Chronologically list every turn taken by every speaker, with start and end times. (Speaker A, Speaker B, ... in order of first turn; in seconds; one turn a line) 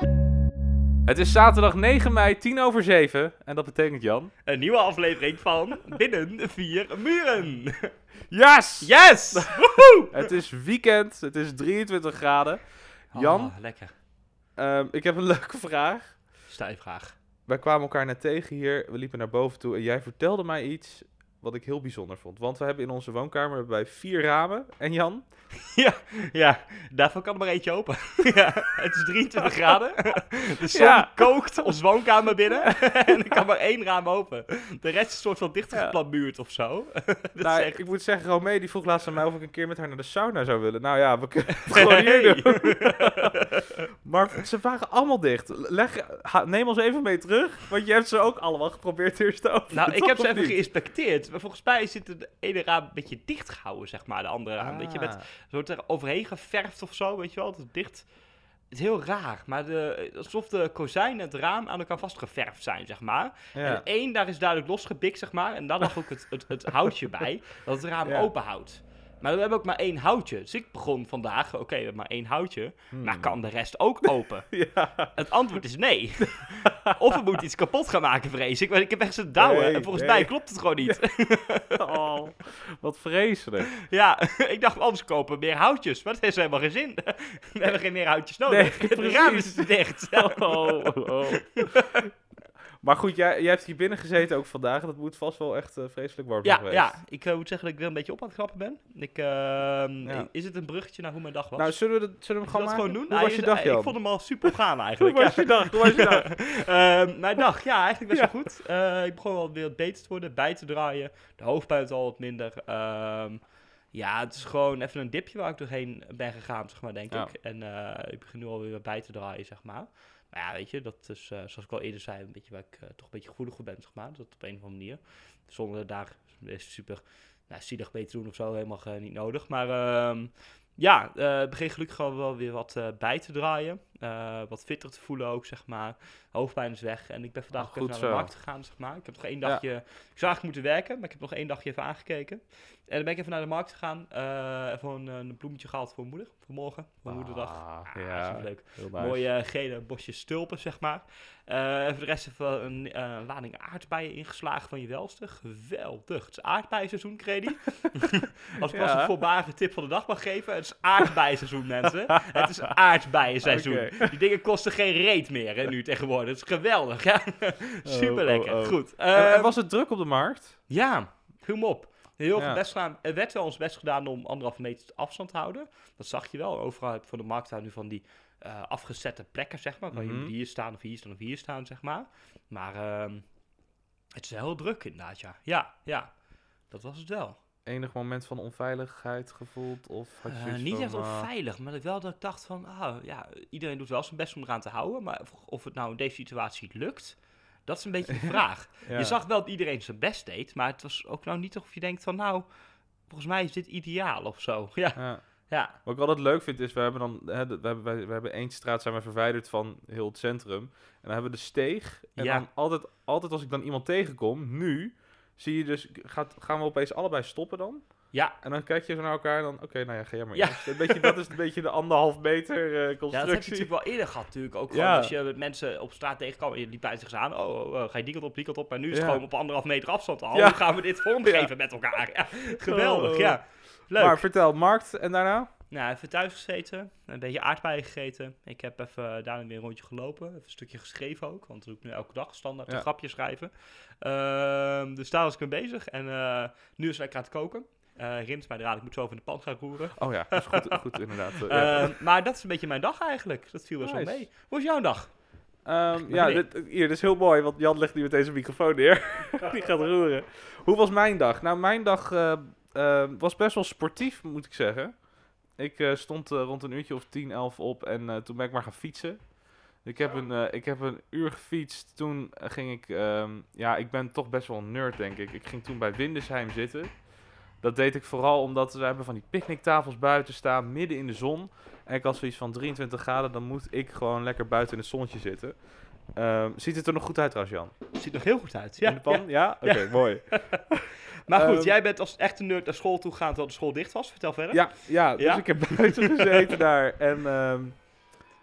Speaker A: 1.1-4.3
Speaker B: 4.5-7.9
Speaker A: 8.3-12.6
Speaker B: 8.8-10.3
Speaker A: 13.1-13.5
Speaker B: 13.1-13.9
Speaker A: 14.6-16.1
Speaker B: 16.5-17.2
Speaker A: 17.5-25.2
Speaker B: 25.6-37.8
Speaker A: 30.7-33.4
Speaker A: 37.4-43.4
Speaker B: 41.7-43.7
Speaker A: 44.0-50.6
Speaker B: 49.7-58.0
Speaker A: 54.6-55.2
Speaker B: 58.7-74.5
Speaker A: 63.5-63.8
Speaker A: 66.8-67.2
Speaker A: 68.0-68.3
Speaker A: 72.9-73.3
Speaker A: 74.0-75.2
Speaker B: 75.1-81.8
Speaker A: 76.8-77.2
Speaker A: 79.4-81.0
Speaker A: 81.7-83.7
Speaker B: 83.8-92.0
Speaker A: 88.5-91.9
Speaker A: 92.8-97.0
Speaker B: 96.4-101.8
Speaker A: 101.5-106.4
Speaker B: 102.5-113.4
Speaker A: 108.1-108.3
Speaker B: 113.9-169.6
Speaker A: 137.5-138.3
Speaker A: 147.1-149.2
Speaker A: 158.7-159.1
Speaker A: 162.1-162.7
Speaker A: 163.4-164.2
Speaker A: 167.8-170.6
Speaker B: 170.7-183.2
Speaker A: 172.3-172.6
Speaker A: 179.9-180.3
Speaker B: 184.2-186.1
Speaker B: 186.7-187.4
Speaker A: 187.7-191.3
Speaker B: 190.3-202.5
Speaker A: 198.1-199.2
Speaker B: 203.1-205.8
Speaker A: 204.9-205.2
Speaker A: 205.8-217.8
Speaker B: 212.2-212.4
Speaker B: 218.1-218.4
Speaker A: 218.4-223.7
Speaker B: 220.3-221.2
Speaker B: 223.1-234.2
Speaker A: 224.7-225.1
Speaker A: 228.9-229.2
Speaker A: 230.3-231.5
Speaker A: 232.6-233.4
Speaker A: 233.9-235.5
Speaker B: 235.7-250.8
Speaker A: 249.9-251.9
Speaker B: 251.4-255.1
Speaker A: 253.8-254.2
Speaker A: 255.7-264.9
Speaker B: 255.9-256.4
Speaker A: 265.6-269.2
Speaker A: 269.8-276.9
Speaker A: 277.6-285.6
Speaker A: 286.1-287.7
Speaker B: 287.9-290.6
Speaker A: 288.8-291.8
Speaker B: 291.2-296.5
Speaker A: 294.5-297.9